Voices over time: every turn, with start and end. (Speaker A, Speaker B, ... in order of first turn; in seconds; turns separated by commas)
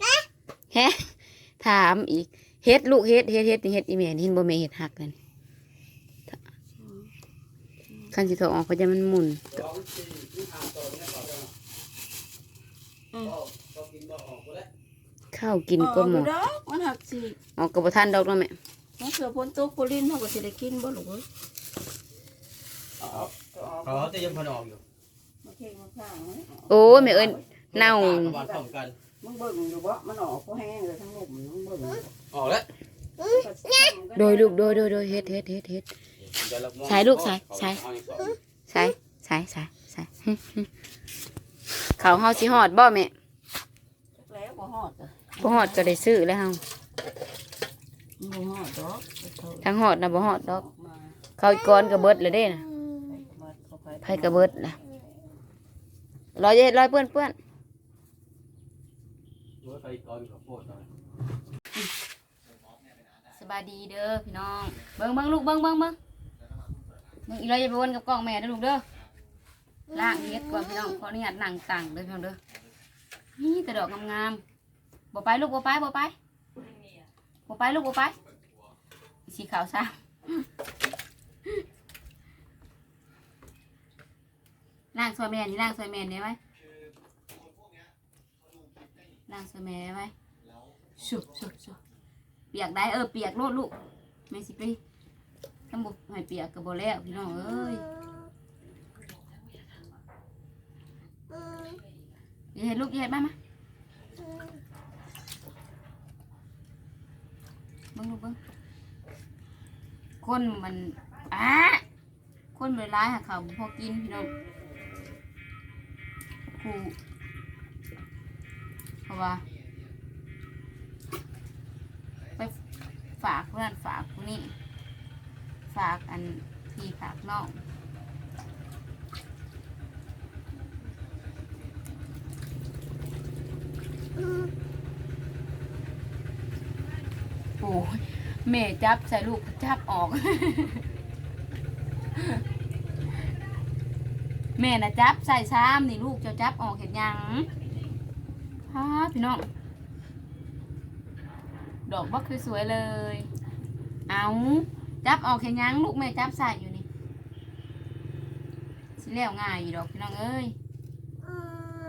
Speaker A: 0.7-5.2, Speaker B: 6.8-7.1, Speaker A: 8.1-9.6, Speaker C: 9.6-11.5, Speaker C: 13.2-14.7, Speaker A: 15.3-16.3, Speaker B: 15.8-17.4, Speaker A: 17.6-18.5, Speaker B: 19.0-21.2, Speaker B: 23.0-24.4, Speaker C: 23.8-24.8, Speaker B: 25.4-27.4, Speaker A: 26.7-28.4, Speaker C: 27.7-28.9, Speaker B: 28.1-28.6, Speaker B: 29.2-32.1, Speaker C: 32.3-32.7, Speaker B: 33.2-35.4, Speaker A: 34.1-35.9, Speaker C: 36.2-38.4, Speaker A: 36.8-37.8, Speaker A: 38.7-40.7, Speaker A: 42.0-43.1, Speaker B: 44.1-45.9, Speaker A: 45.4-46.6, Speaker B: 48.2-49.7, Speaker A: 49.6-50.6, Speaker B: 50.3-51.2, Speaker A: 51.4-52.6, Speaker B: 53.0-54.8, Speaker A: 54.0-54.8, Speaker A: 56.3-57.3, Speaker C: 59.6-60.9, Speaker A: 63.3-66.0, Speaker A: 67.2-68.8, Speaker A: 69.9-72.4, Speaker A: 73.4-74.4, Speaker A: 75.1-76.1, Speaker A: 77.5-78.2, Speaker A: 79.3-80.4, Speaker A: 84.9-86.4, Speaker A: 89.3-90.1, Speaker A: 91.0-91.8, Speaker A: 92.5-93.7, Speaker A: 94.3-94.8, Speaker A: 95.7-97.9, Speaker B: 101.3-101.8, Speaker A: 102.5-103.3, Speaker A: 107.9-108.4, Speaker A: 110.2-111.8, Speaker A: 112.5-114.3, Speaker A: 116.5-116.9, Speaker A: 119.1-119.4, Speaker A: 123.2-124.5, Speaker A: 125.7-127.6, Speaker A: 137.6-140.8, Speaker A: 144.6-147.5, Speaker A: 148.7-149.5, Speaker A: 151.9-153.3, Speaker A: 154.1-156.8, Speaker A: 159.0-160.6